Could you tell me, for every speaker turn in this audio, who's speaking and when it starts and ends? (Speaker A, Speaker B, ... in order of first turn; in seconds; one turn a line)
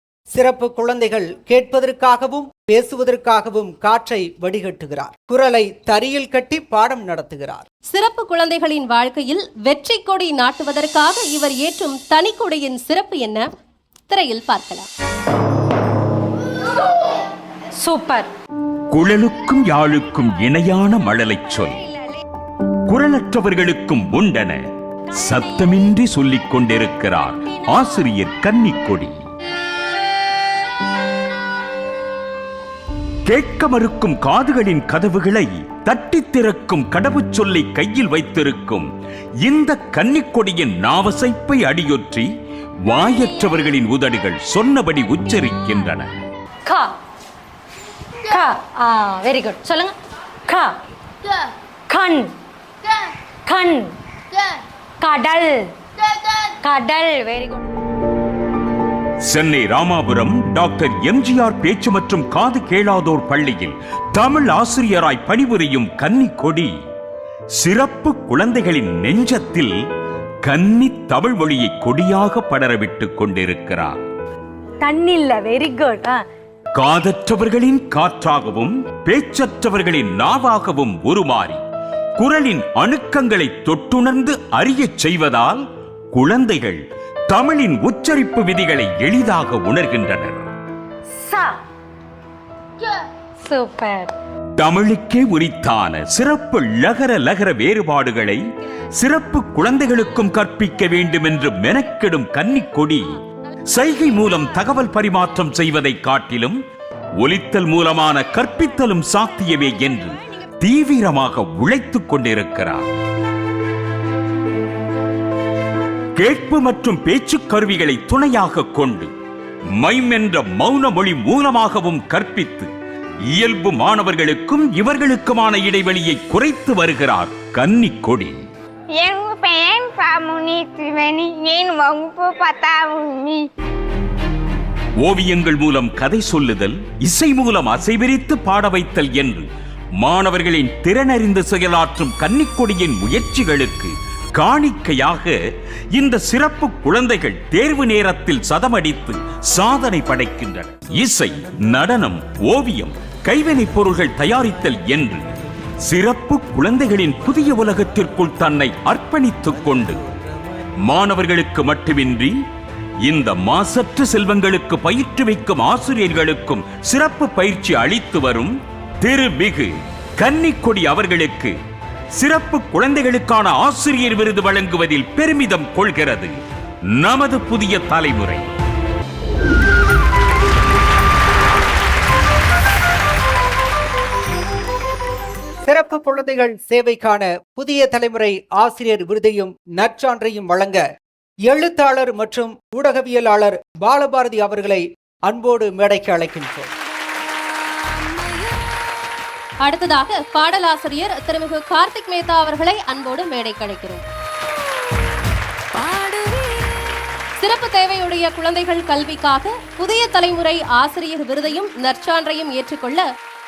Speaker A: 0.3-7.7
Speaker B: 7.9-13.4
Speaker B: 14.1-14.9
Speaker C: 17.8-18.3
Speaker D: 18.9-21.8
Speaker D: 22.9-24.6
Speaker D: 25.1-29.2
Speaker D: 33.3-38.9
Speaker D: 39.4-42.3
Speaker D: 42.9-46.1
Speaker C: 46.7-46.9
Speaker C: 48.3-49.9
Speaker C: 50.5-50.8
Speaker C: 51.9-52.3
Speaker C: 53.5-54.4
Speaker C: 55.0-57.7
Speaker D: 59.3-66.7
Speaker D: 67.6-69.7
Speaker D: 70.4-74.0
Speaker C: 74.8-76.2
Speaker D: 76.7-81.6
Speaker D: 82.2-90.5
Speaker C: 91.2-91.6
Speaker C: 93.4-94.1
Speaker D: 94.6-98.4
Speaker D: 99.0-106.6
Speaker D: 107.2-112.9
Speaker D: 116.2-119.1
Speaker D: 119.8-122.7
Speaker D: 123.3-128.4
Speaker E: 129.0-133.4
Speaker D: 135.0-139.5
Speaker D: 140.0-145.3
Speaker D: 145.9-155.2
Speaker D: 155.9-160.0
Speaker D: 160.8-162.3
Speaker D: 163.0-171.5
Speaker D: 172.2-176.3
Speaker D: 176.9-178.5
Speaker A: 185.7-190.8
Speaker A: 191.5-196.7
Speaker B: 199.6-204.0
Speaker B: 207.4-213.0